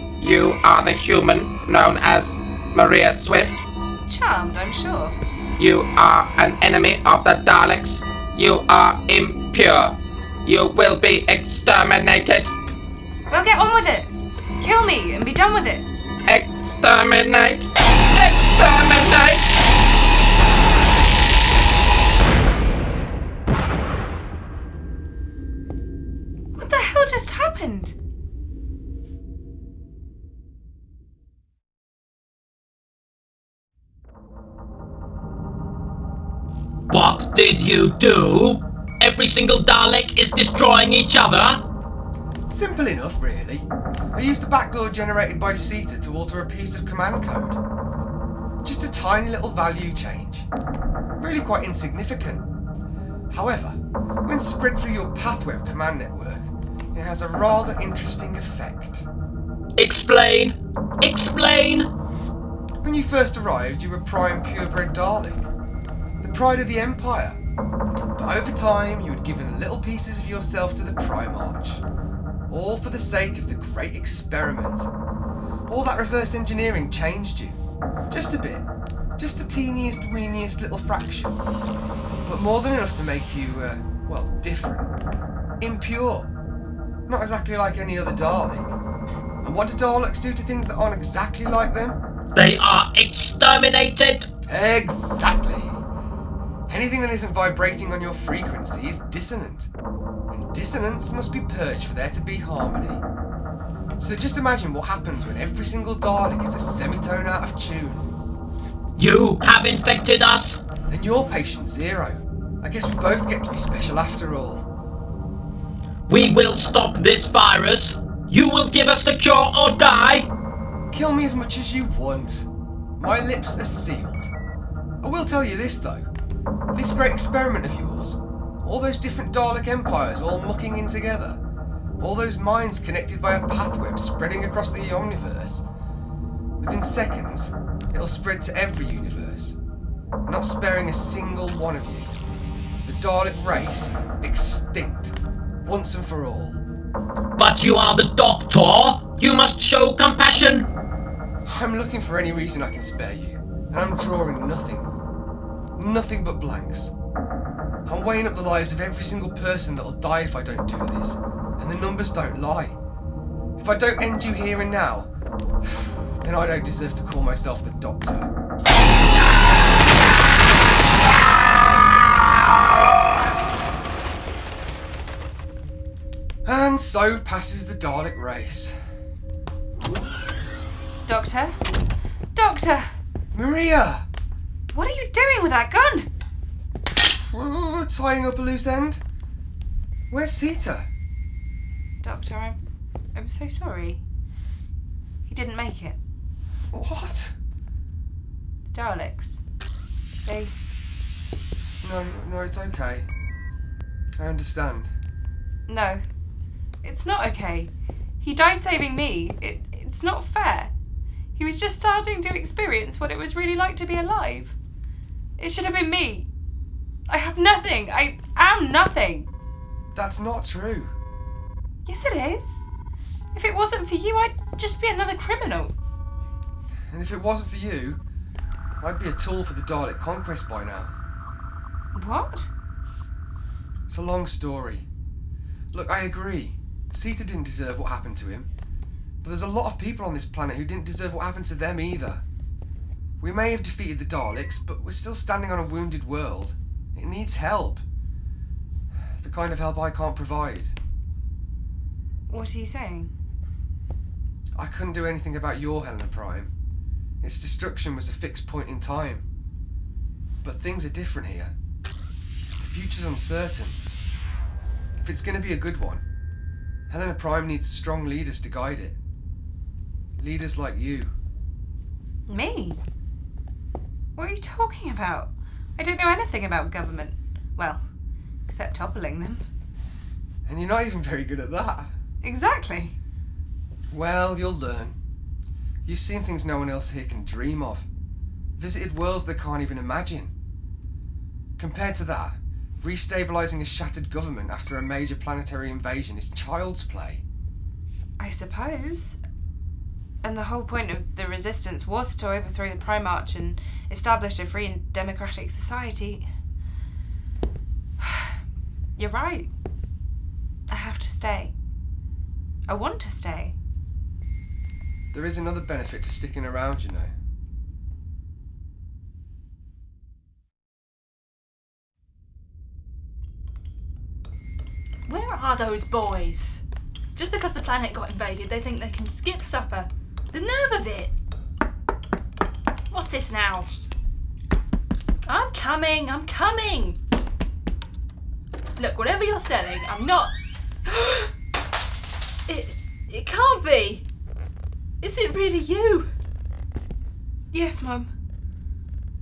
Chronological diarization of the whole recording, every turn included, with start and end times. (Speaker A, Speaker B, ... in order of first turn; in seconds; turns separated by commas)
Speaker A: 0.2-3.6, Speaker B: 4.1-5.2, Speaker A: 5.6-12.5, Speaker B: 13.3-14.1, Speaker B: 14.6-15.9, Speaker A: 16.3-19.4, Speaker B: 26.6-27.9, Speaker C: 36.9-41.6, Speaker D: 42.5-47.6, Speaker D: 48.6-50.5, Speaker D: 51.2-52.5, Speaker D: 53.3-59.1, Speaker C: 59.8-61.9, Speaker D: 62.8-65.5, Speaker D: 66.2-67.4, Speaker D: 68.2-71.8, Speaker D: 72.5-74.9, Speaker D: 75.7-77.6, Speaker D: 78.1-81.4, Speaker D: 82.2-84.9, Speaker D: 85.6-86.3, Speaker D: 87.1-88.8, Speaker D: 89.4-92.0, Speaker C: 92.3-94.3, Speaker D: 94.5-95.8, Speaker D: 96.7-99.7, Speaker D: 100.3-103.0, Speaker D: 104.0-108.1, Speaker C: 109.0-110.6, Speaker D: 110.9-114.7, Speaker C: 116.1-120.3, Speaker D: 120.9-122.5, Speaker D: 123.0-124.3, Speaker D: 125.0-126.0, Speaker D: 126.7-131.4, Speaker D: 132.0-135.6, Speaker D: 136.6-139.6, Speaker D: 140.3-142.1, Speaker D: 142.8-146.6, Speaker C: 147.4-150.7, Speaker D: 151.5-154.9, Speaker D: 155.8-156.9, Speaker D: 157.9-162.8, Speaker D: 163.6-165.1, Speaker D: 165.6-168.3, Speaker D: 176.4-178.7, Speaker B: 181.1-181.6, Speaker B: 182.3-182.9, Speaker D: 183.3-184.0, Speaker B: 184.7-186.1, Speaker D: 187.3-189.0, Speaker D: 190.1-190.9, Speaker B: 192.0-192.6, Speaker B: 193.2-194.0, Speaker B: 195.3-196.0, Speaker D: 196.7-197.3, Speaker B: 198.7-199.4, Speaker B: 200.3-200.5, Speaker D: 201.8-203.1, Speaker D: 204.2-204.9, Speaker B: 205.7-206.0, Speaker B: 206.8-210.7, Speaker B: 211.4-214.6, Speaker B: 215.4-216.3, Speaker B: 217.1-219.3, Speaker D: 219.9-220.9, Speaker B: 221.9-222.7, Speaker B: 223.3-225.7, Speaker D: 226.9-228.0, Speaker D: 228.8-230.9, Speaker B: 232.0-232.5, Speaker D: 233.9-234.8, Speaker D: 235.7-238.5, Speaker D: 239.2-242.2, Speaker D: 243.2-247.8, Speaker D: 249.2-250.7, Speaker B: 252.3-253.1, Speaker D: 254.6-256.5, Speaker D: 257.2-259.2, Speaker D: 260.4-261.5, Speaker D: 262.6-263.8, Speaker D: 265.0-266.0, Speaker D: 266.9-269.0, Speaker D: 270.2-271.1, Speaker B: 272.3-272.8, Speaker B: 274.2-277.8, Speaker B: 278.5-279.4, Speaker D: 280.5-281.9, Speaker B: 282.2-282.9, Speaker D: 283.9-285.0, Speaker D: 285.9-287.9, Speaker D: 288.6-290.3, Speaker D: 291.6-297.2, Speaker B: 298.2-299.2, Speaker B: 300.2-306.3, Speaker B: 308.0-308.3, Speaker B: 309.0-309.5, Speaker B: 310.7-311.6, Speaker B: 312.7-313.6, Speaker D: 315.1-317.1, Speaker E: 325.1-326.6, Speaker E: 327.2-331.1, Speaker E: 332.9-333.7, Speaker E: 335.3-337.0, Speaker E: 338.8-340.3, Speaker E: 340.9-341.3, Speaker E: 342.5-344.1, Speaker E: 345.0-346.1, Speaker B: 347.5-348.1